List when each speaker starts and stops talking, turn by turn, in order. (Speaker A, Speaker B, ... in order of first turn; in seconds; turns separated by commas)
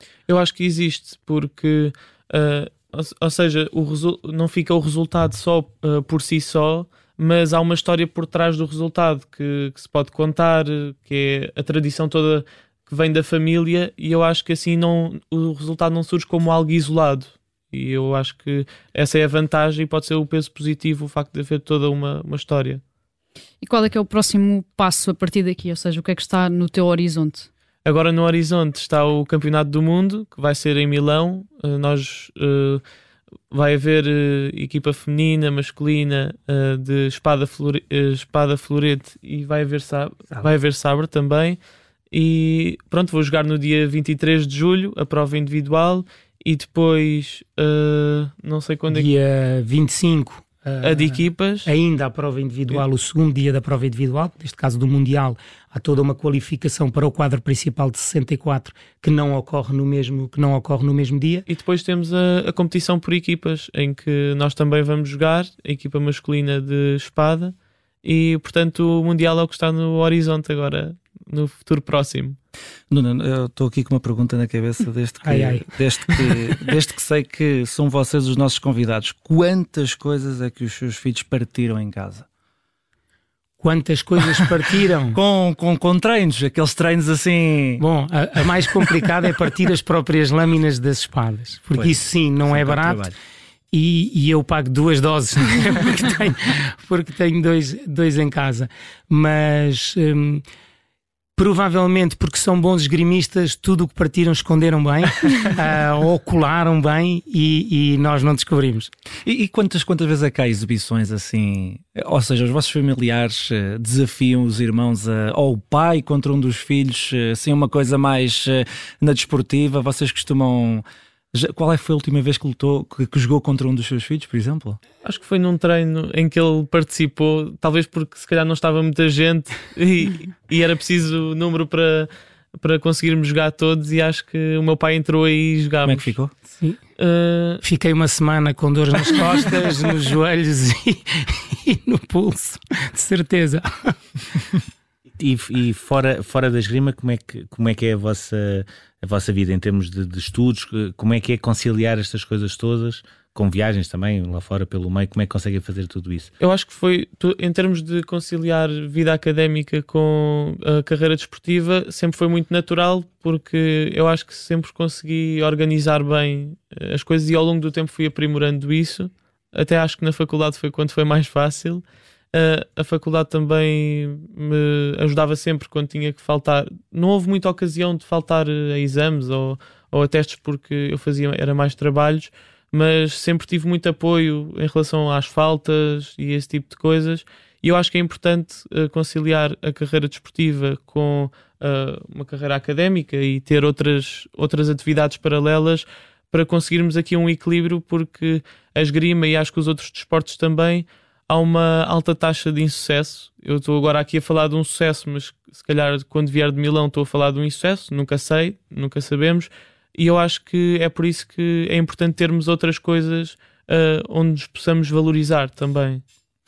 Speaker A: 0.3-22.8, Speaker B: 23.6-27.5, Speaker A: 27.8-32.8, Speaker A: 33.5-41.6, Speaker A: 42.1-49.1, Speaker C: 48.9-61.5, Speaker A: 50.8-51.7, Speaker A: 61.5-72.4, Speaker D: 72.9-82.2, Speaker C: 75.2-75.7, Speaker C: 83.6-85.2, Speaker D: 85.1-87.8, Speaker C: 87.8-93.0, Speaker D: 91.8-93.1, Speaker C: 93.7-100.4, Speaker C: 101.3-108.9, Speaker D: 109.2-124.8, Speaker A: 125.0-136.1, Speaker D: 135.8-136.3, Speaker A: 137.0-137.6, Speaker C: 137.6-143.9, Speaker E: 145.2-156.3, Speaker A: 156.4-216.0